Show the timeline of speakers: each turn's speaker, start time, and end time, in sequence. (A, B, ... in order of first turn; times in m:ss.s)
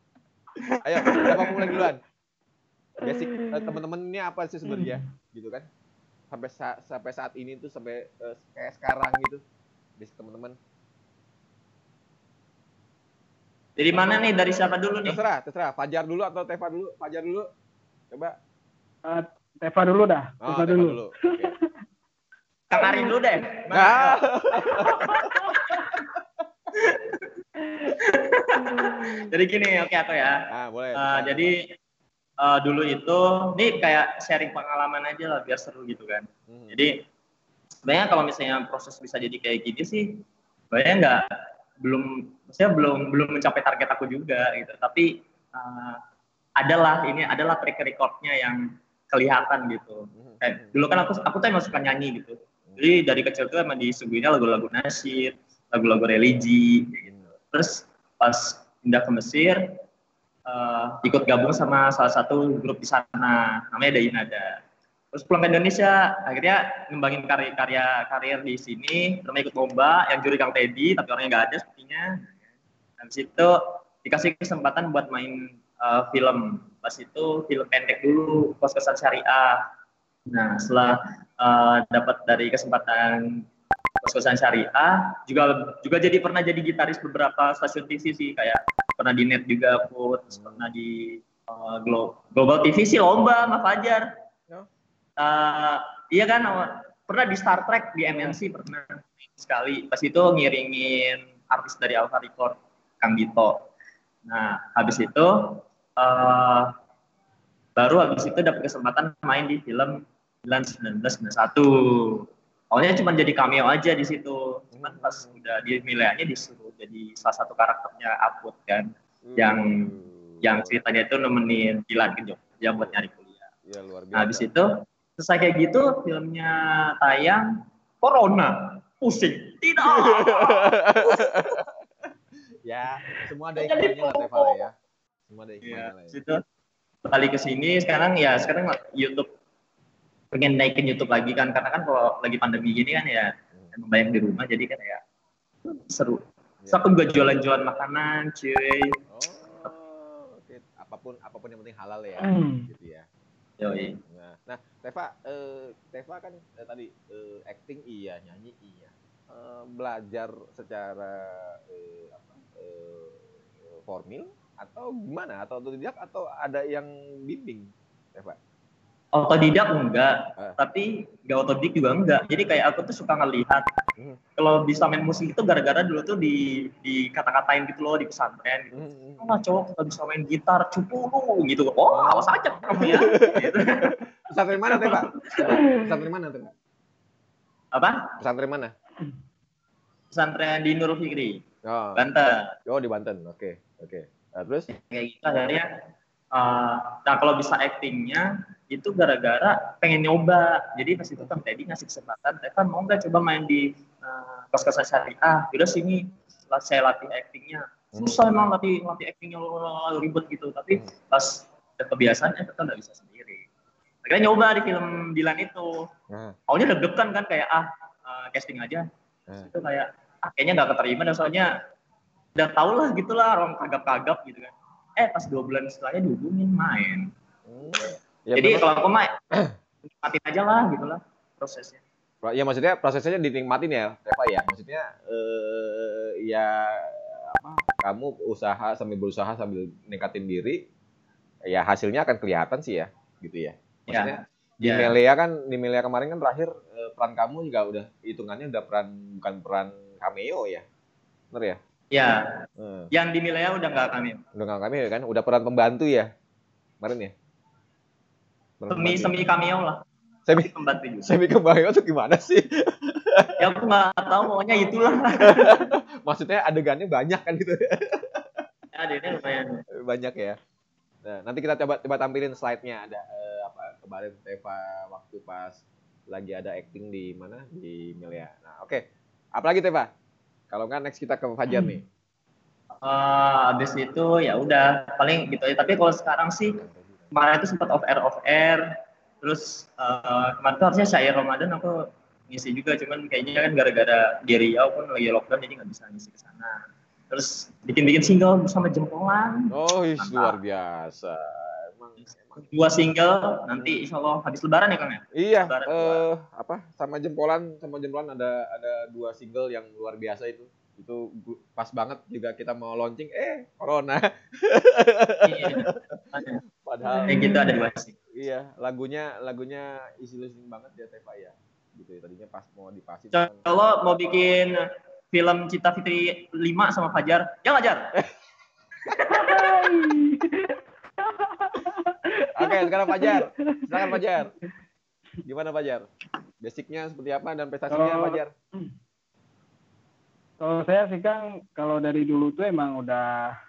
0:00.8-0:02.0 A
0:01.2-0:01.4 B
0:03.0-0:03.8 B
0:03.0-0:05.7 A
0:04.7-0:05.0 B
0:06.3-0:09.4 A
0:10.0-0:10.6 A
0:13.8-0:15.2 C
0:15.0-0:17.5 A
0:19.0-0:21.7 B
0:20.4-0:21.5 A
0:22.7-0:24.2 C
0:22.8-0:23.2 B
0:23.7-0:25.3 A
0:24.9-0:25.8 B
0:26.8-0:27.3 C
0:27.6-0:27.9 B
0:27.9-0:30.4 C
0:28.6-0:29.2 B
0:30.5-0:31.5 A
0:31.0-0:31.6 C
0:32.4-0:36.9 C
0:36.5-0:36.8 A
0:37.9-0:41.2 C
0:41.8-0:46.0 C
0:46.6-0:59.6 C
0:50.1-0:50.8 A
0:52.7-0:53.0 A
0:57.0-0:57.4 A
1:00.5-1:04.6 C
1:05.1-1:12.1 C
1:13.0-1:19.6 C
1:20.3-1:23.2 C
1:24.0-1:34.0 C
1:30.3-1:30.6 A
1:35.2-1:43.6 C
1:44.3-1:46.7 C
1:47.8-1:59.7 C
1:54.7-1:55.4 A
1:59.3-2:00.8 A
2:00.4-2:03.3 C
2:02.7-2:03.0 A
2:03.7-2:04.5 A
2:04.2-2:07.5 C
2:08.0-2:10.6 C
2:09.9-2:11.7 A
2:12.6-2:14.7 A
2:13.6-2:14.6 C
2:15.3-2:16.2 A
2:15.6-2:16.4 C
2:17.1-2:19.3 C
2:20.3-2:25.0 C
2:25.7-2:29.0 C
2:26.6-2:26.9 A
2:29.1-2:33.1 A
2:32.2-2:32.7 B
2:33.6-2:34.0 C
2:34.1-2:43.2 A
2:43.7-2:48.4 A
2:49.2-2:53.6 C
2:54.4-3:03.9 C
2:58.7-2:59.3 A
3:01.9-3:06.5 A
3:04.7-3:05.5 C
3:05.6-3:05.9 B
3:07.8-3:08.1 C
3:08.2-3:08.7 A
3:10.1-3:11.4 C
3:11.7-3:12.0 A
3:12.0-3:12.4 C
3:12.7-3:14.7 A
3:14.7-3:15.7 C
3:16.3-3:33.4 C
3:27.9-3:28.5 A
3:34.0-3:35.8 C
3:36.1-3:36.4 A
3:36.5-3:38.8 C
3:39.4-3:41.5 C
3:42.4-3:47.1 C
3:47.5-3:48.7 A
3:48.4-3:49.1 C
3:50.0-3:51.8 C
3:52.2-4:00.6 A
4:01.5-4:10.6 A
4:03.9-4:04.9 C
4:11.3-4:11.6 A
4:11.9-4:12.2 C
4:12.6-4:12.9 A
4:12.9-4:14.2 C
4:14.4-4:16.1 A
4:16.8-4:17.1 A
4:18.6-4:19.2 A
4:18.7-4:19.8 C
4:20.4-4:21.1 C
4:21.0-4:23.4 A
4:23.4-4:25.7 C
4:25.2-4:28.2 A
4:28.7-4:29.6 C
4:29.8-4:30.4 A
4:31.0-4:38.8 A
4:39.4-4:39.9 A
4:40.5-4:41.8 A
4:41.5-4:41.8 B
4:42.8-4:46.6 C
4:46.6-4:47.1 A
4:47.1-4:48.6 C
4:49.2-4:51.7 C
4:52.3-4:56.6 C
4:57.1-5:00.4 C
4:59.5-5:02.4 A
5:02.4-5:06.0 C
5:05.2-5:16.0 A
5:15.3-5:16.4 C
5:16.6-5:17.3 A
5:16.8-5:17.5 B
5:17.1-5:17.9 C
5:18.2-5:23.5 A
5:23.1-5:24.6 C
5:25.1-5:27.9 C
5:29.1-5:34.0 B
5:29.1-5:29.4 C
5:32.4-5:34.3 A
5:35.2-5:35.9 A
5:36.4-5:38.3 A
5:37.7-5:38.7 B
5:40.4-5:43.3 B